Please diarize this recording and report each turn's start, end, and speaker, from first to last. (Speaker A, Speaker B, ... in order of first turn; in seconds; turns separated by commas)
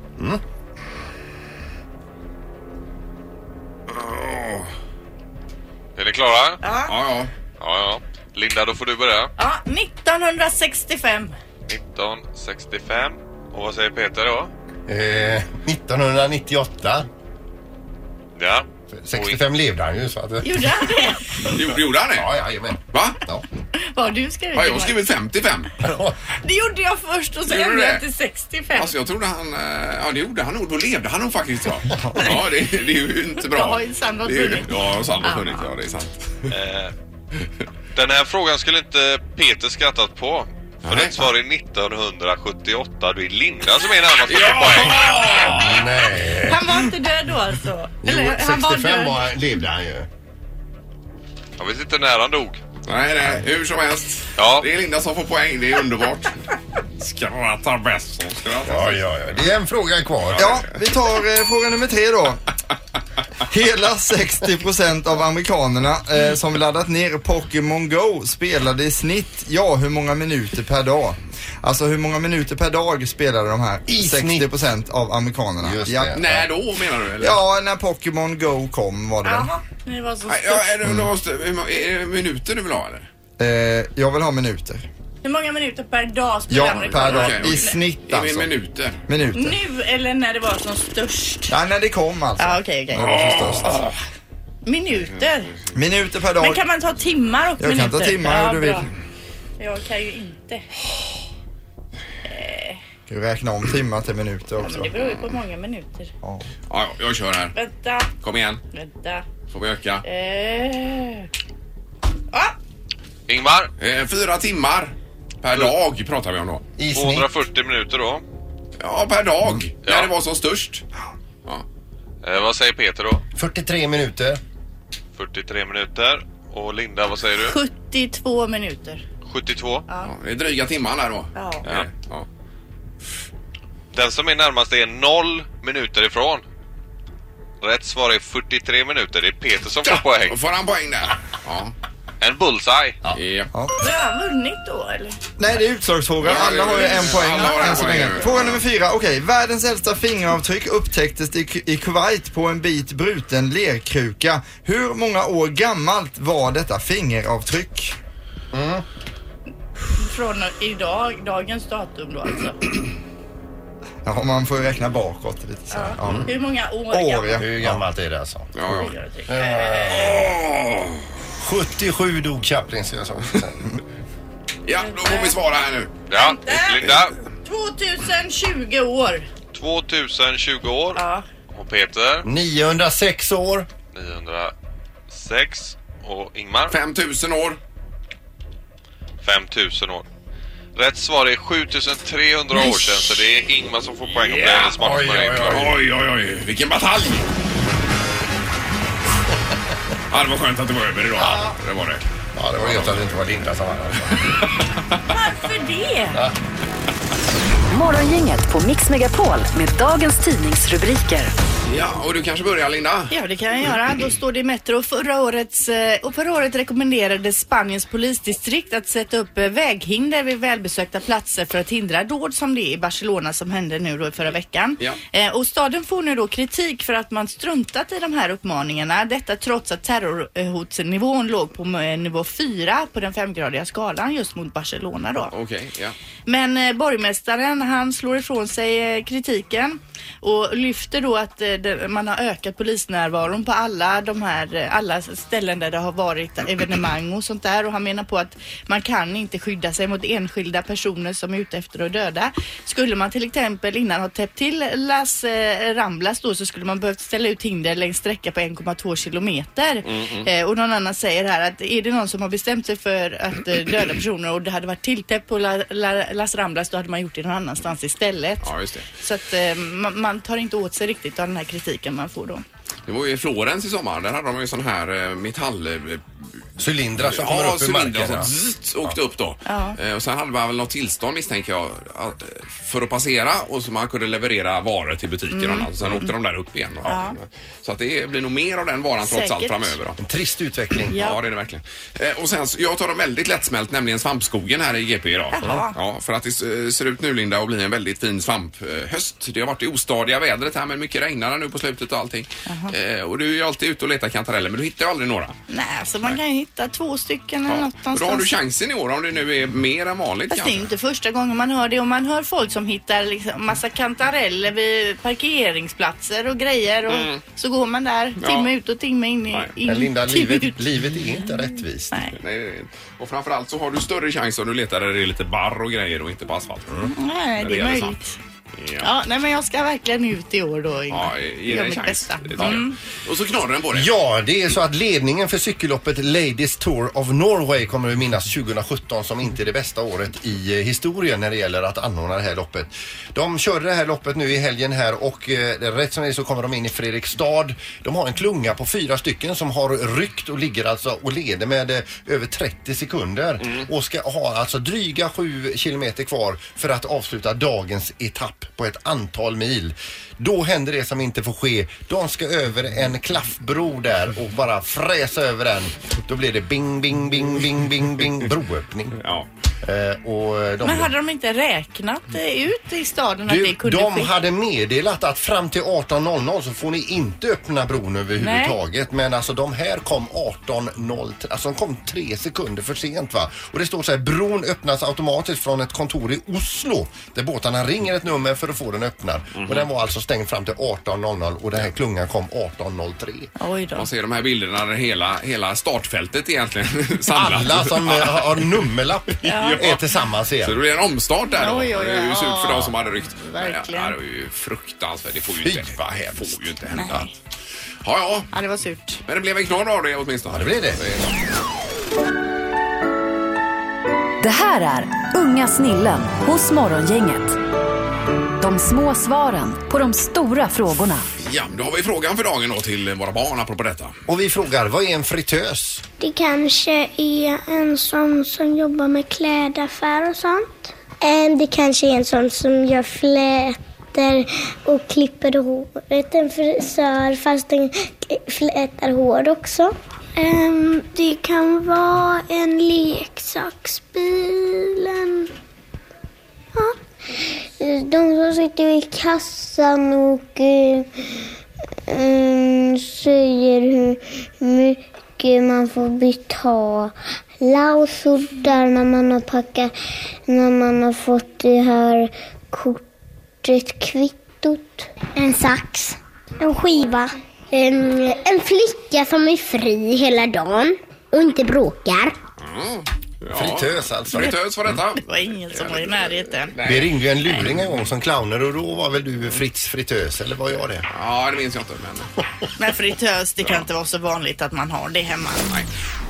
Speaker A: 3.9-4.7, Speaker B: 6.0-6.6, Speaker C: 6.6-6.9, Speaker A: 6.9-7.3, Speaker B: 7.6-9.3, Speaker C: 9.4-11.4, Speaker B: 11.7-14.5, Speaker D: 14.9-17.1, Speaker B: 18.4-19.4, Speaker D: 18.9-20.7, Speaker C: 20.4-21.4, Speaker A: 21.5-22.3, Speaker D: 22.1-23.4, Speaker A: 22.9-23.2, Speaker C: 23.9-25.1, Speaker A: 24.6-25.7, Speaker D: 25.8-26.2, Speaker C: 26.4-28.9, Speaker A: 27.5-28.1, Speaker A: 28.7-36.5, Speaker C: 33.5-35.7, Speaker B: 36.5-36.9, Speaker B: 38.0-45.2, Speaker A: 40.8-41.3, Speaker A: 44.3-46.0, Speaker D: 45.4-46.9, Speaker C: 46.5-49.3, Speaker D: 48.0-50.1, Speaker B: 51.6-52.6, Speaker A: 52.9-56.4, Speaker B: 54.4-54.7, Speaker A: 57.0-59.1, Speaker D: 58.6-60.6, Speaker A: 60.2-60.8, Speaker E: 60.4-62.4, Speaker E: 63.5-76.2, Speaker D: 73.9-74.5, Speaker D: 75.6-76.4, Speaker A: 76.2-77.4, Speaker E: 77.2-79.5, Speaker C: 79.2-80.8, Speaker A: 80.3-83.1, Speaker E: 80.8-81.1, Speaker E: 83.4-84.9, Speaker C: 85.2-87.8, Speaker E: 86.5-88.5, Speaker A: 86.9-89.0, Speaker E: 89.1-89.6, Speaker C: 89.3-91.5, Speaker E: 91.5-93.9, Speaker C: 92.4-93.9, Speaker A: 93.0-93.9, Speaker C: 94.7-95.5, Speaker E: 95.7-96.6, Speaker C: 96.4-98.9, Speaker E: 97.6-98.9, Speaker C: 99.6-100.7, Speaker C: 102.3-102.8, Speaker E: 103.1-104.9, Speaker C: 104.6-106.1, Speaker E: 106.2-106.5, Speaker A: 106.7-107.6, Speaker C: 107.5-108.1, Speaker A: 108.2-108.6, Speaker C: 108.7-109.2, Speaker A: 109.5-110.0, Speaker C: 110.0-111.3, Speaker B: 113.3-113.7, Speaker A: 113.8-116.7, Speaker D: 116.8-117.3, Speaker B: 116.9-118.2, Speaker A: 118.8-120.8, Speaker B: 119.8-120.1, Speaker B: 122.2-123.2, Speaker D: 123.3-124.4, Speaker B: 125.2-127.5, Speaker C: 127.4-129.0, Speaker B: 129.2-129.9, Speaker A: 130.0-132.3, Speaker C: 131.3-131.6, Speaker B: 133.9-136.4, Speaker B: 137.6-140.4, Speaker A: 139.8-141.7, Speaker B: 142.2-143.0, Speaker A: 143.1-143.5, Speaker E: 143.5-143.8, Speaker C: 143.8-145.2, Speaker E: 145.4-157.9, Speaker A: 146.2-148.6, Speaker C: 147.1-148.0, Speaker D: 158.5-158.8, Speaker C: 160.0-162.6, Speaker E: 164.1-166.4, Speaker C: 165.7-167.4, Speaker E: 166.9-167.8, Speaker D: 167.4-168.6, Speaker A: 168.6-168.9, Speaker C: 168.7-170.0, Speaker D: 169.3-170.3, Speaker A: 170.0-171.0, Speaker D: 171.4-173.6, Speaker A: 174.7-176.0, Speaker C: 174.8-175.4, Speaker B: 176.1-177.2, Speaker C: 176.2-176.9, Speaker A: 176.8-177.1, Speaker C: 177.4-179.3, Speaker B: 179.5-181.0, Speaker C: 180.9-181.3, Speaker B: 181.5-182.3, Speaker D: 182.3-183.7, Speaker B: 183.9-184.5, Speaker B: 185.1-186.8, Speaker A: 186.7-187.6, Speaker B: 189.2-190.1, Speaker B: 190.8-195.7, Speaker A: 194.3-194.8, Speaker D: 194.8-195.8, Speaker A: 195.5-197.3, Speaker A: 200.1-202.0, Speaker D: 201.2-201.6, Speaker D: 202.3-204.3, Speaker A: 202.6-203.1, Speaker A: 204.2-204.6, Speaker C: 205.1-206.2, Speaker F: 207.7-211.3, Speaker A: 211.7-213.1, Speaker C: 213.1-235.3, Speaker A: 235.3-236.0, Speaker C: 236.3-272.4, Speaker A: 259.9-260.3, Speaker A: 268.4-268.9, Speaker A: 272.9-276.1, Speaker D: 276.6-278.3, Speaker A: 277.0-290.0, Speaker C: 279.5-279.8, Speaker C: 285.3-286.1, Speaker C: 286.9-287.2, Speaker C: 289.0-289.8, Speaker D: 290.0-291.0, Speaker C: 290.9-291.2, Speaker A: 290.9-305.4, Speaker C: 295.3-295.8, Speaker C: 302.5-302.7, Speaker C: 305.5-308.3, Speaker A: 307.5-310.7, Speaker C: 310.3-320.6, Speaker A: 316.9-317.2, Speaker A: 318.2-318.5, Speaker D: 319.6-321.9, Speaker A: 322.2-326.9, Speaker C: 326.9-328.1, Speaker A: 327.4-328.0, Speaker A: 328.6-328.9, Speaker C: 328.8-332.8, Speaker A: 330.9-333.9, Speaker D: 333.7-369.0, Speaker A: 369.0-369.3, Speaker D: 369.6-370.9, Speaker C: 370.6-374.1, Speaker D: 373.3-393.3, Speaker C: 378.2-378.6, Speaker A: 389.4-389.6, Speaker C: 393.4-393.9, Speaker A: 393.8-398.5, Speaker D: 397.1-400.6, Speaker A: 399.2-399.8, Speaker C: 399.2-399.6, Speaker A: 400.4-407.1, Speaker C: 401.3-403.9, Speaker D: 405.4-406.2, Speaker C: 406.7-407.1, Speaker A: 407.8-408.3, Speaker C: 408.3-409.0, Speaker A: 409.1-411.1, Speaker D: 410.3-410.8, Speaker F: 414.2-417.4, Speaker F: 418.4-421.1, Speaker A: 421.2-424.0, Speaker D: 424.1-425.8, Speaker G: 426.0-445.3, Speaker G: 446.6-451.0, Speaker G: 451.9-459.8, Speaker G: 460.3-462.8, Speaker G: 463.4-472.2, Speaker A: 472.4-476.9, Speaker D: 473.3-474.4, Speaker C: 475.0-476.5, Speaker D: 476.6-480.9, Speaker A: 480.9-482.1, Speaker C: 482.6-485.5